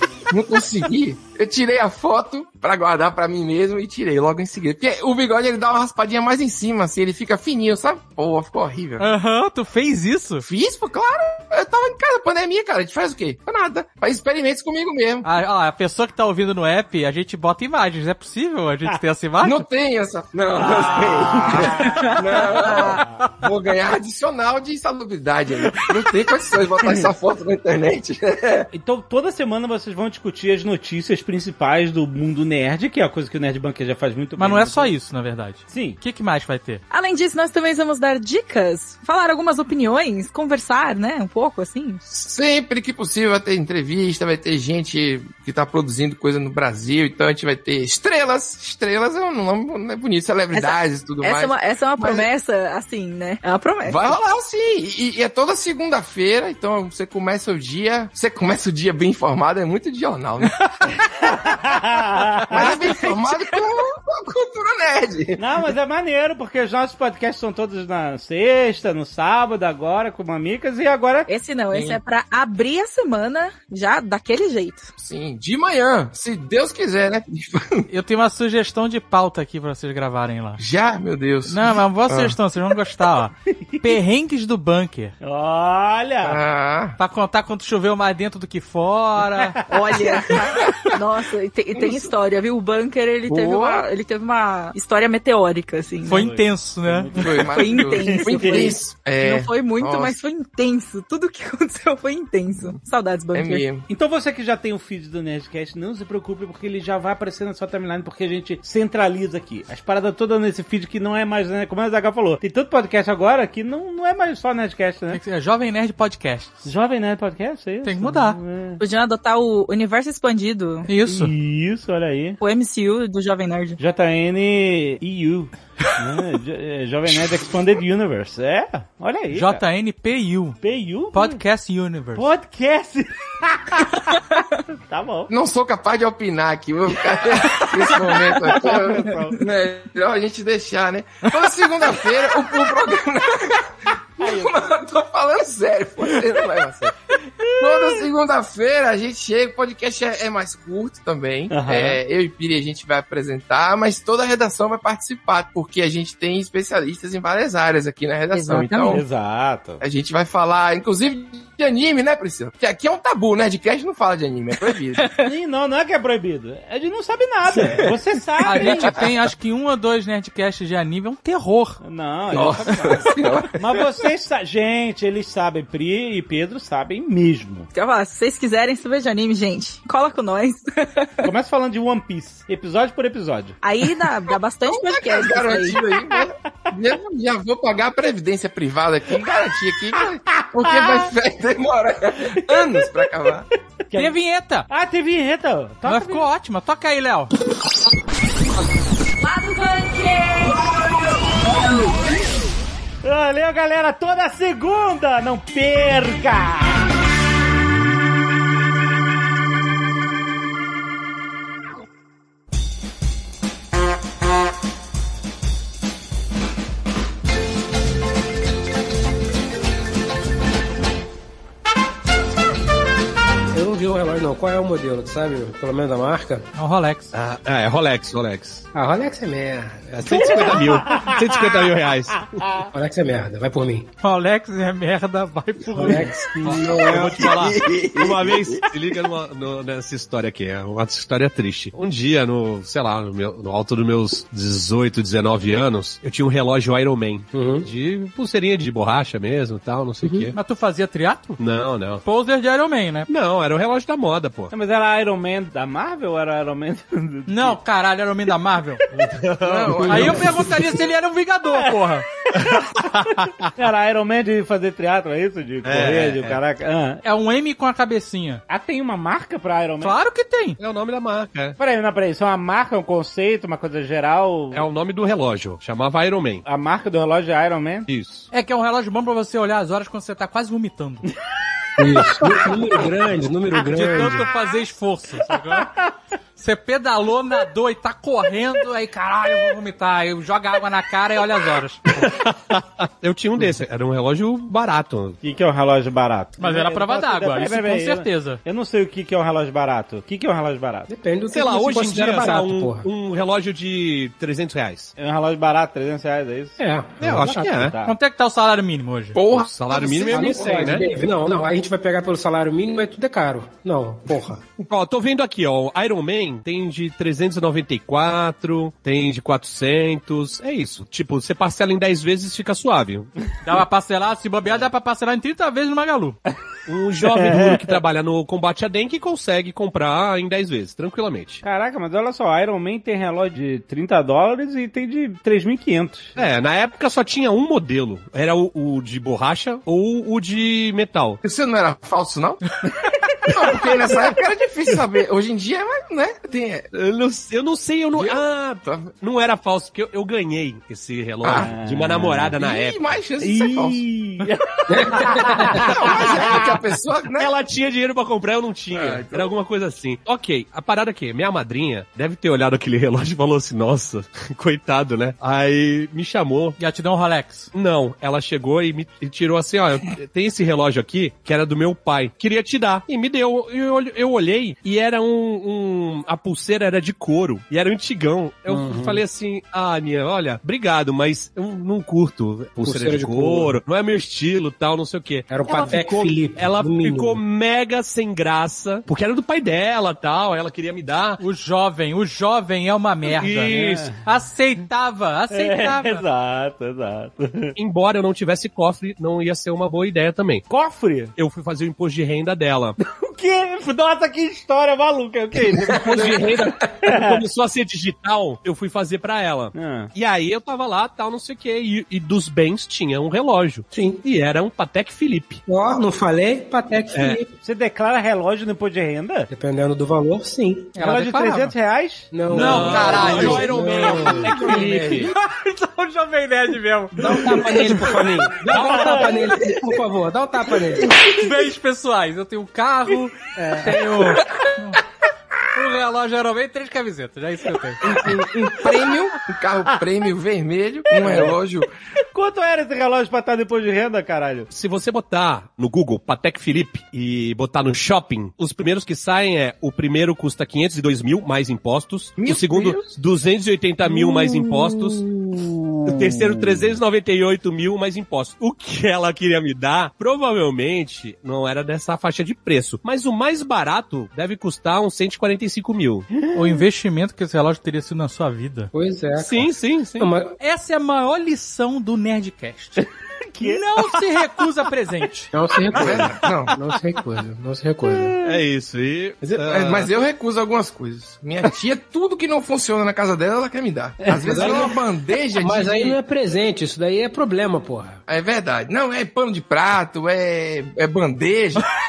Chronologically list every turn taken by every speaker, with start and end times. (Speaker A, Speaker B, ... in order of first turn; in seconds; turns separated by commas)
Speaker A: 0.3-9.1, Speaker B: 9.0-10.4, Speaker A: 10.4-15.3, Speaker B: 15.2-19.6, Speaker A: 19.4-28.7, Speaker C: 20.6-23.1, Speaker C: 28.7-34.9, Speaker B: 34.4-36.8, Speaker C: 35.7-36.0, Speaker D: 36.9-42.0, Speaker A: 42.1-52.3, Speaker D: 50.5-54.1, Speaker A: 53.8-61.5, Speaker C: 61.1-63.0, Speaker A: 62.3-65.4, Speaker D: 62.6-63.3, Speaker C: 65.4-71.3, Speaker D: 71.3-74.9, Speaker A: 71.7-72.0, Speaker A: 75.0-77.9, Speaker B: 77.9-80.6, Speaker A: 80.6-82.3, Speaker B: 81.5-85.1, Speaker C: 83.5-84.0, Speaker C: 85.2-86.4, Speaker A: 86.2-87.0, Speaker B: 87.0-89.6, Speaker D: 89.7-96.3, Speaker A: 90.1-91.0, Speaker A: 91.7-92.1, Speaker A: 93.3-93.8, Speaker B: 96.0-97.1, Speaker C: 96.1-98.8, Speaker A: 97.2-100.2, Speaker D: 97.5-103.7, Speaker A: 103.3-103.8, Speaker C: 103.9-115.2, Speaker B: 115.1-116.6, Speaker C: 116.6-118.8, Speaker B: 117.8-118.4, Speaker D: 118.8-120.9, Speaker B: 120.9-121.3, Speaker C: 121.0-122.4, Speaker D: 122.4-123.8, Speaker C: 123.8-129.6, Speaker B: 129.3-130.6, Speaker C: 130.6-131.4, Speaker B: 131.1-132.3, Speaker C: 132.1-134.2, Speaker C: 134.8-135.3, Speaker A: 135.3-146.9, Speaker C: 138.2-139.4, Speaker C: 144.2-144.5, Speaker A: 147.6-159.0, Speaker C: 147.6-148.0, Speaker C: 151.5-152.0, Speaker D: 158.3-158.9, Speaker C: 158.9-159.8, Speaker A: 159.8-165.0, Speaker C: 165.2-169.0, Speaker A: 167.5-167.9, Speaker B: 168.4-171.8, Speaker C: 171.8-177.7, Speaker A: 172.3-173.8, Speaker D: 177.7-181.3, Speaker C: 181.2-183.6, Speaker D: 183.6-185.8, Speaker A: 184.7-193.4, Speaker C: 190.6-191.1, Speaker C: 192.4-193.0, Speaker C: 193.8-194.2, Speaker B: 193.9-194.7, Speaker C: 194.7-196.3, Speaker B: 195.8-197.3, Speaker D: 199.2-200.7, Speaker C: 203.0-206.9, Speaker E: 223.5-226.5, Speaker B: 226.5-227.1, Speaker F: 227.1-228.7, Speaker E: 228.7-230.6, Speaker F: 229.9-232.5, Speaker E: 232.7-233.9, Speaker B: 234.0-236.7, Speaker E: 235.8-237.4, Speaker F: 236.8-250.3, Speaker A: 237.2-238.7, Speaker E: 247.3-247.7, Speaker E: 250.0-250.3, Speaker B: 250.3-251.4, Speaker F: 251.4-252.0, Speaker B: 252.0-253.1, Speaker F: 253.1-254.5, Speaker C: 254.5-257.6, Speaker B: 257.3-258.8, Speaker C: 258.9-260.2, Speaker F: 259.2-259.9, Speaker A: 259.4-260.4, Speaker B: 259.9-262.1, Speaker C: 262.4-267.0, Speaker F: 265.6-266.4, Speaker B: 267.0-268.4, Speaker C: 268.5-269.9, Speaker B: 269.8-270.6, Speaker F: 270.6-271.6, Speaker C: 271.6-274.6, Speaker F: 274.5-276.4, Speaker C: 276.4-277.9, Speaker F: 277.9-278.3, Speaker B: 278.3-281.1, Speaker E: 281.8-284.3, Speaker B: 283.7-285.9, Speaker B: 286.4-291.9, Speaker F: 291.9-295.2, Speaker C: 295.2-300.9, Speaker B: 296.4-298.4, Speaker E: 300.9-302.9, Speaker F: 301.3-304.9, Speaker C: 305.0-307.9, Speaker E: 306.6-307.6, Speaker F: 307.0-307.7, Speaker B: 307.8-309.2, Speaker A: 309.1-310.9, Speaker F: 309.3-310.9, Speaker E: 309.8-314.4, Speaker F: 314.6-323.1, Speaker B: 323.4-326.2, Speaker F: 326.7-331.4, Speaker C: 327.0-327.7, Speaker C: 331.4-336.1, Speaker F: 336.1-341.2, Speaker A: 341.2-342.4, Speaker A: 343.3-346.7, Speaker F: 346.7-353.0, Speaker A: 347.9-348.9, Speaker A: 351.2-351.6, Speaker C: 351.3-352.4, Speaker A: 352.3-353.8, Speaker C: 353.2-356.4, Speaker E: 354.7-355.7, Speaker A: 355.5-357.3, Speaker F: 357.1-366.6, Speaker A: 358.7-359.3, Speaker B: 366.6-367.5, Speaker F: 367.5-391.2, Speaker E: 378.5-379.0, Speaker E: 382.6-383.6, Speaker E: 385.3-387.2, Speaker B: 391.2-396.0, Speaker F: 393.1-393.9, Speaker C: 393.4-393.9, Speaker C: 395.3-397.5, Speaker F: 397.6-400.4, Speaker C: 400.5-401.1, Speaker F: 401.1-402.8, Speaker C: 402.8-407.2, Speaker F: 405.7-415.4, Speaker C: 409.5-409.9, Speaker E: 413.7-414.0, Speaker E: 415.5-417.3, Speaker F: 416.9-417.2, Speaker C: 417.4-419.3, Speaker E: 419.3-420.7, Speaker B: 420.7-421.5, Speaker C: 420.8-422.1, Speaker E: 422.1-425.1, Speaker B: 422.3-423.5, Speaker F: 422.3-425.1, Speaker C: 423.1-423.4, Speaker B: 425.1-429.1, Speaker E: 427.0-431.1, Speaker C: 428.6-429.1, Speaker B: 431.0-434.8, Speaker C: 433.4-433.9, Speaker B: 435.5-437.8, Speaker A: 437.8-441.7, Speaker C: 441.0-441.4, Speaker C: 442.1-444.5, Speaker F: 444.5-455.0, Speaker A: 452.2-452.9, Speaker F: 455.9-466.1, Speaker C: 466.2-466.6, Speaker B: 466.3-468.7, Speaker E: 468.7-470.4, Speaker F: 469.1-470.1, Speaker B: 470.4-472.8, Speaker C: 472.8-474.4, Speaker B: 473.4-475.3, Speaker E: 475.3-478.1, Speaker A: 475.7-476.5, Speaker C: 477.9-478.4, Speaker F: 478.2-479.9, Speaker A: 479.2-486.0, Speaker C: 484.1-484.5, Speaker E: 484.1-488.0, Speaker A: 488.1-491.6